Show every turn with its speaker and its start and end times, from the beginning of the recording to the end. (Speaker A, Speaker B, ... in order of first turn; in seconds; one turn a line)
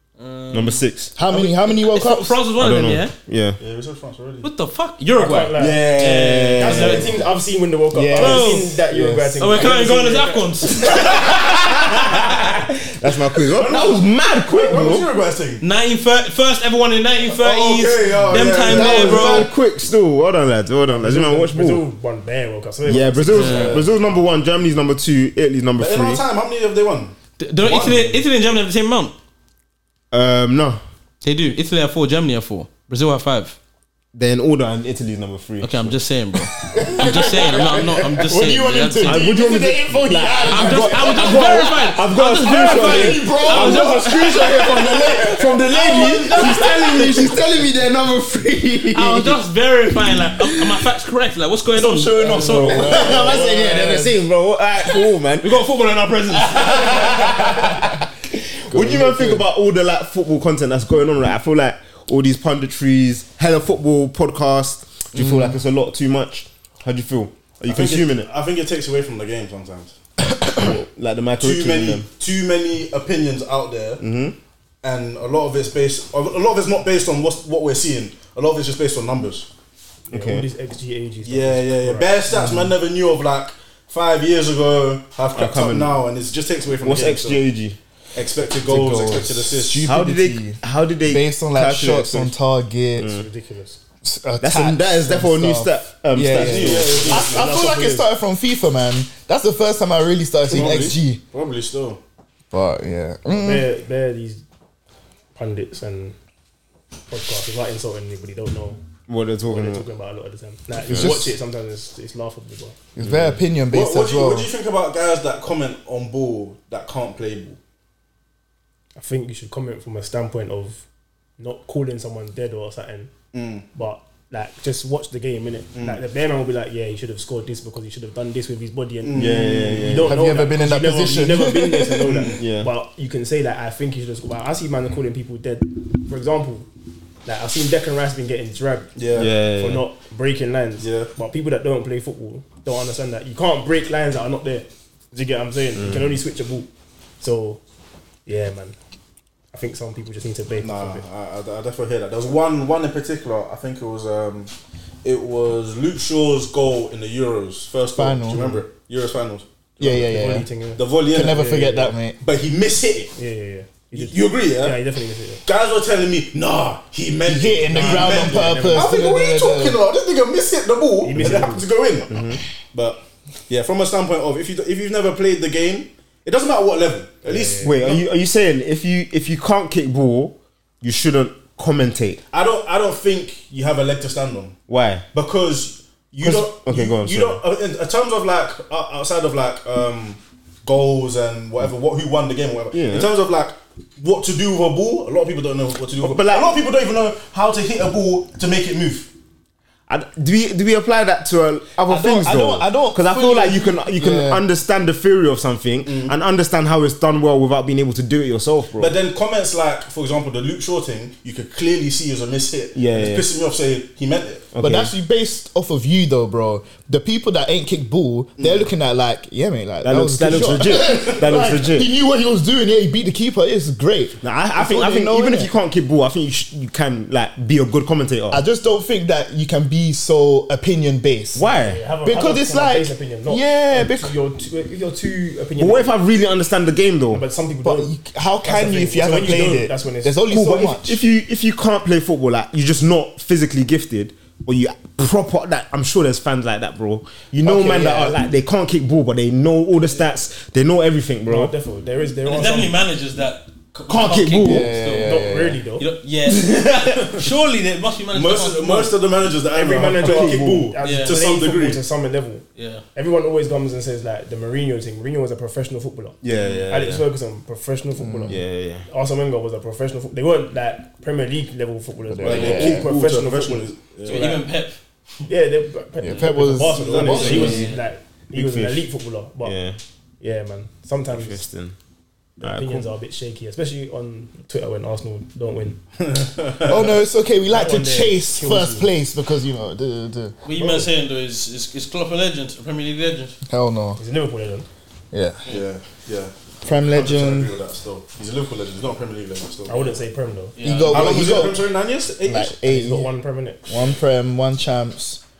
Speaker A: 0.2-3.1
Speaker B: 0.5-1.1
Speaker C: 1.1-2.4
Speaker B: 2.6-3.6
Speaker D: 3.6-4.5
Speaker A: 4.4-7.2
Speaker E: 5.2-10.5
Speaker B: 5.5-7.2
Speaker C: 7.9-9.6
Speaker A: 8.1-8.7
Speaker A: 9.4-12.2
Speaker D: 11.0-11.4
Speaker B: 12.4-15.1
Speaker D: 13.5-15.6
Speaker A: 15.6-19.5
Speaker D: 17.3-19.5
Speaker B: 18.6-21.8
Speaker E: 20.9-23.9
Speaker B: 22.8-26.2
Speaker A: 23.3-23.8
Speaker D: 23.6-23.8
Speaker D: 25.8-28.2
Speaker A: 27.4-29.1
Speaker B: 30.1-30.8
Speaker A: 31.2-33.6
Speaker B: 34.1-36.0
Speaker A: 35.6-39.3
Speaker C: 36.7-41.3
Speaker B: 37.0-37.8
Speaker B: 39.0-49.4
Speaker A: 40.5-45.1
Speaker C: 42.5-45.6
Speaker A: 45.6-47.3
Speaker C: 46.4-47.3
Speaker A: 48.9-53.4
Speaker B: 51.7-55.6
Speaker C: 52.3-54.2
Speaker A: 55.4-57.8
Speaker B: 56.3-58.0
Speaker B: 58.6-68.3
Speaker C: 58.7-59.5
Speaker A: 65.2-65.4
Speaker D: 67.7-69.9
Speaker B: 70.5-72.1
Speaker D: 71.4-74.0
Speaker B: 74.0-74.3
Speaker D: 74.8-79.5
Speaker B: 80.1-80.5
Speaker E: 80.1-82.3
Speaker D: 81.2-87.4
Speaker C: 82.3-82.7
Speaker B: 85.3-86.0
Speaker B: 86.8-87.8
Speaker D: 88.1-89.9
Speaker B: 88.6-92.3
Speaker C: 89.5-93.2
Speaker E: 93.0-93.8
Speaker C: 94.0-101.2
Speaker B: 94.4-97.1
Speaker D: 96.3-97.5
Speaker E: 96.9-98.1
Speaker D: 100.5-102.0
Speaker C: 102.5-103.7
Speaker E: 103.3-104.4
Speaker E: 105.3-106.2
Speaker E: 107.1-108.8
Speaker B: 109.1-109.8
Speaker E: 109.5-112.8
Speaker C: 110.8-111.3
Speaker C: 113.0-114.5
Speaker D: 113.7-117.6
Speaker E: 119.0-120.8
Speaker E: 121.4-123.1
Speaker D: 123.3-123.7
Speaker E: 123.7-136.7
Speaker D: 125.7-126.0
Speaker D: 129.0-130.0
Speaker B: 129.2-130.1
Speaker C: 130.0-132.1
Speaker D: 132.0-132.4
Speaker B: 132.4-132.7
Speaker E: 137.2-138.9
Speaker D: 138.9-139.3
Speaker B: 139.1-139.8
Speaker E: 139.4-146.7
Speaker D: 140.8-141.1
Speaker E: 147.2-147.6
Speaker E: 148.2-148.8
Speaker E: 149.5-151.0
Speaker D: 150.6-154.5
Speaker D: 155.0-160.0
Speaker C: 157.9-158.6
Speaker C: 159.8-160.5
Speaker E: 159.8-161.9
Speaker D: 160.8-163.1
Speaker C: 161.1-162.2
Speaker E: 163.2-165.4
Speaker D: 163.9-164.8
Speaker D: 165.4-178.0
Speaker C: 167.2-169.8
Speaker E: 167.7-168.9
Speaker E: 171.0-171.7
Speaker B: 172.1-172.4
Speaker E: 177.2-178.0
Speaker B: 177.6-182.2
Speaker D: 182.3-184.5
Speaker B: 184.7-185.1
Speaker D: 185.1-199.1
Speaker B: 186.2-187.4
Speaker B: 192.7-193.1
Speaker B: 196.0-196.6
Speaker B: 199.9-209.0
Speaker C: 201.8-204.4
Speaker D: 205.8-206.1
Speaker D: 208.8-214.5
Speaker B: 212.7-213.3
Speaker B: 214.5-214.9
Speaker C: 214.6-225.5
Speaker D: 218.4-218.7
Speaker B: 219.8-221.9
Speaker B: 224.2-228.4
Speaker C: 228.3-231.4
Speaker B: 231.3-231.8
Speaker E: 231.5-235.9
Speaker C: 232.0-234.1
Speaker B: 235.6-237.2
Speaker E: 237.1-240.2
Speaker C: 237.6-241.0
Speaker B: 240.3-251.5
Speaker C: 247.5-248.0
Speaker E: 247.5-248.1
Speaker E: 251.3-252.8
Speaker A: 252.2-258.9
Speaker B: 253.9-254.7
Speaker C: 254.4-255.6
Speaker E: 255.0-255.8
Speaker B: 256.3-257.1
Speaker D: 258.1-261.8
Speaker E: 259.5-262.4
Speaker B: 259.9-260.7
Speaker A: 260.8-261.2
Speaker A: 262.6-262.8
Speaker E: 262.9-266.2
Speaker B: 266.2-267.0
Speaker E: 266.7-274.4
Speaker C: 268.0-268.3
Speaker B: 268.3-268.9
Speaker C: 272.1-272.9
Speaker D: 272.2-274.4
Speaker A: 274.1-274.8
Speaker E: 275.3-279.5
Speaker C: 276.0-277.6
Speaker D: 276.7-277.7
Speaker A: 277.1-277.8
Speaker B: 278.3-278.9
Speaker B: 279.4-279.8
Speaker E: 280.2-281.4
Speaker B: 281.1-281.7
Speaker E: 282.4-285.8
Speaker B: 282.4-282.9
Speaker D: 286.0-286.9
Speaker C: 286.6-290.4
Speaker E: 287.5-288.9
Speaker A: 290.4-293.3
Speaker E: 290.5-290.9
Speaker C: 293.5-294.0
Speaker E: 294.0-294.7
Speaker C: 295.1-295.4
Speaker D: 295.4-299.9
Speaker C: 296.6-297.5
Speaker E: 299.7-300.5
Speaker A: 300.6-301.2
Speaker C: 300.6-301.6
Speaker D: 300.9-302.6
Speaker C: 302.2-303.1
Speaker E: 302.6-303.7
Speaker C: 303.7-305.2